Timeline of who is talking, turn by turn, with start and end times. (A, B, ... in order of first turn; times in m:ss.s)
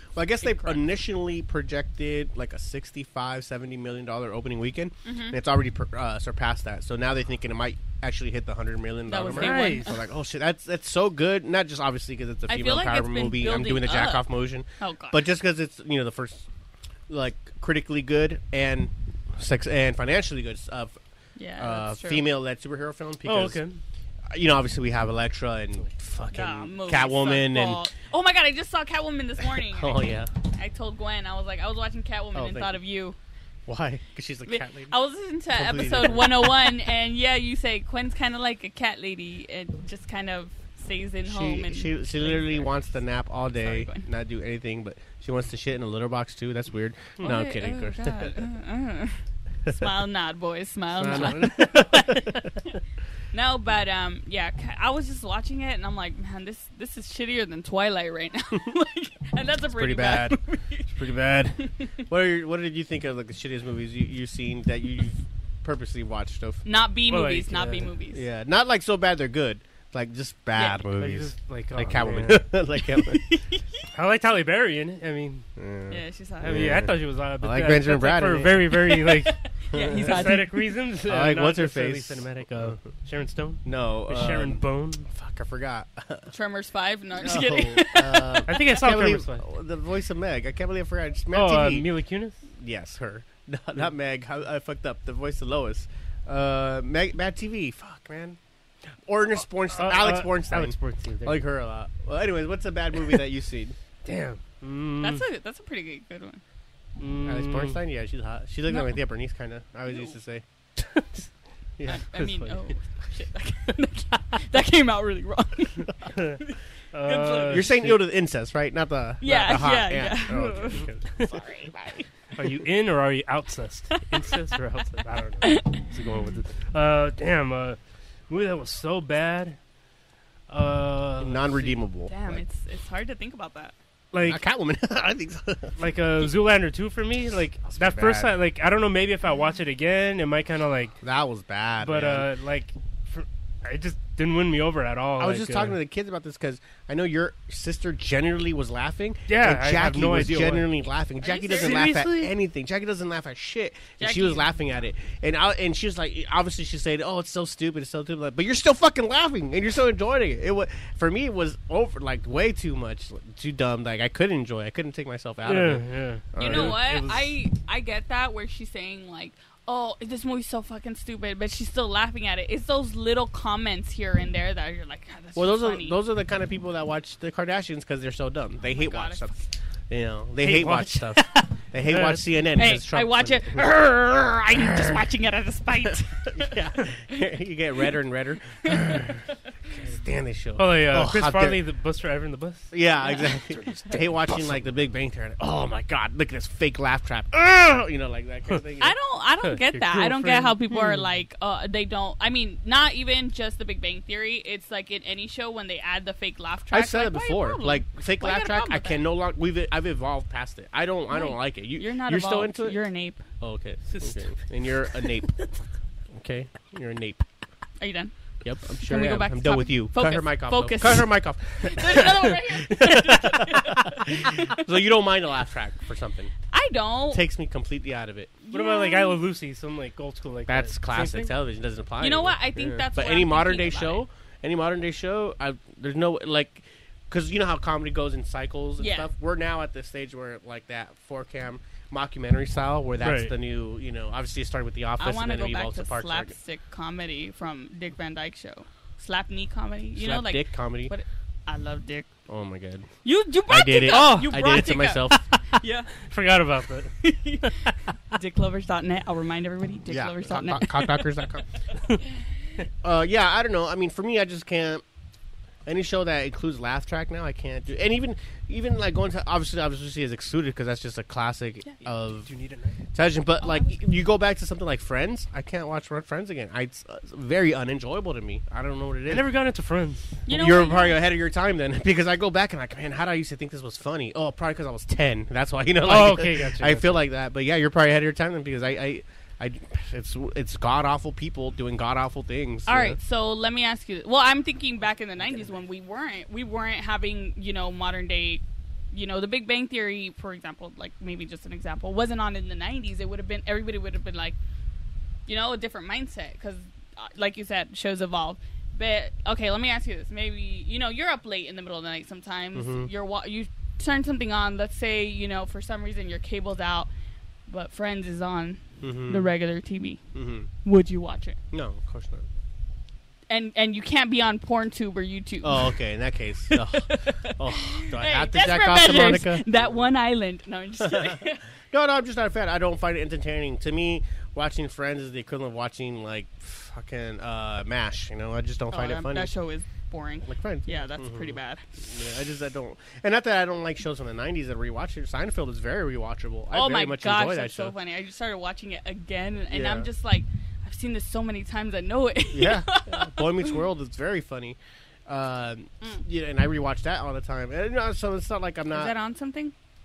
0:00.2-0:16.5 A
0:00.4-0:00.8 B
0:05.0-0:05.4 B
0:09.1-0:10.0 B
0:09.3-0:09.9 C
0:12.5-0:14.3 B
0:14.8-0:15.3 B
0:17.1-0:21.0 A
0:21.4-0:22.3 B
0:21.6-0:23.6 A
0:23.2-0:23.8 C
0:24.3-0:27.8 A
0:26.3-0:33.2 B
0:29.5-0:30.3 A
0:32.3-0:32.8 A
0:33.7-0:35.0 A
0:34.5-0:42.7 B
0:35.5-0:36.7 A
0:41.2-0:48.3 A
0:43.5-0:44.1 B
0:47.2-0:51.5 B
0:51.0-0:52.5 A
0:51.0-0:52.5 C
0:53.3-1:00.9 B
0:59.7-1:06.6 A
1:06.6-1:08.2 B
1:07.1-1:07.9 C
1:08.1-1:13.3 A
1:11.0-1:12.5 C
1:12.9-1:13.8 B
1:13.9-1:15.4 C
1:15.6-1:18.8 A
1:15.9-1:16.7 B
1:16.4-1:25.1 C
1:18.9-1:20.6 B
1:19.7-1:20.3 A
1:21.0-1:22.8 A
1:23.6-1:26.3 A
1:26.3-1:28.8 B
1:27.2-1:31.9 A
1:28.5-1:29.4 C
1:31.3-1:32.4 C
1:32.5-1:38.4 A
1:39.1-1:43.8 A
1:39.7-1:41.5 C
1:44.0-1:45.3 C
1:45.0-1:46.4 B
1:47.0-1:47.8 C
1:47.2-1:50.4 A
1:48.7-1:49.0 B
1:49.9-1:50.2 B
1:50.8-1:51.2 C
1:51.8-1:52.1 A
1:51.9-1:57.7 B
1:52.1-1:52.6 C
1:56.1-1:56.4 C
1:56.9-1:58.0 C
1:57.5-2:02.0 A
1:59.2-2:01.7 B
2:00.8-2:01.3 C
2:02.4-2:07.8 C
2:05.4-2:05.8 B
2:08.3-2:09.6 C
2:10.5-2:11.8 C
2:11.2-2:12.4 A
2:12.1-2:13.7 B
2:14.1-2:14.4 C
2:14.2-2:15.8 A
2:15.8-2:21.0 C
2:17.7-2:18.4 A
2:21.0-2:22.3 A
2:21.8-2:25.8 C
2:25.2-2:46.9 A
2:29.3-2:30.7 C
2:31.2-2:31.9 B
2:31.5-2:32.3 C
2:34.0-2:34.6 B
2:45.4-2:47.3 C
2:46.4-2:56.0 B
2:55.4-3:03.7 A
2:58.6-2:59.4 B
3:00.4-3:02.3 C
3:02.6-3:06.6 B
3:04.5-3:05.0 A
3:05.8-3:09.2 A
3:09.7-3:11.6 A
3:10.6-3:12.7 C
3:12.7-3:19.0 A
3:13.0-3:13.4 B
3:13.5-3:14.4 C
3:18.8-3:29.0 B
3:19.4-3:21.0 C
3:26.7-3:32.8 A
3:31.1-3:33.2 B
3:33.4-3:35.3 A
3:33.9-3:34.3 C
3:36.1-3:37.2 A
3:37.8-3:38.1 B
3:38.4-3:46.3 A
3:38.8-3:44.6 B
3:42.9-3:43.6 C
3:46.5-3:47.3 B
3:47.1-3:48.3 A
3:48.4-3:49.2 B
3:48.5-3:51.3 C
3:50.5-4:06.4 A
3:52.0-3:54.1 B
3:58.8-3:59.1 B
4:03.0-4:03.3 C
4:05.0-4:12.1 B
4:10.0-4:10.9 A
4:12.3-4:12.9 A
4:13.0-4:15.9 B
4:13.5-4:15.3 A
4:13.8-4:14.7 C
4:16.1-4:17.7 C
4:17.0-4:21.0 B
4:19.9-4:21.4 A
4:22.8-4:24.8 A
4:25.7-4:32.3 A
4:32.0-4:32.8 C
4:32.9-4:39.3 A
4:33.4-4:33.8 B
4:39.1-4:40.1 C
4:40.2-4:41.0 B
4:40.3-4:53.0 A
4:45.8-4:47.0 C
4:52.7-5:04.4 B
5:05.3-5:16.9 B
5:12.5-5:12.9 A
5:17.5-5:20.0 B
5:18.8-5:19.3 A
5:20.1-5:20.5 A
5:20.6-5:21.4 B
5:21.5-5:22.3 A
5:23.3-5:25.8 B
5:25.4-5:29.7 A
5:26.5-5:31.4 B
5:30.8-5:39.3 A
5:38.7-5:41.6 B
5:40.2-5:47.8 A
5:46.5-5:53.5 B
5:49.5-5:49.9 A
5:52.3-5:58.9 A
5:58.7-5:59.5 B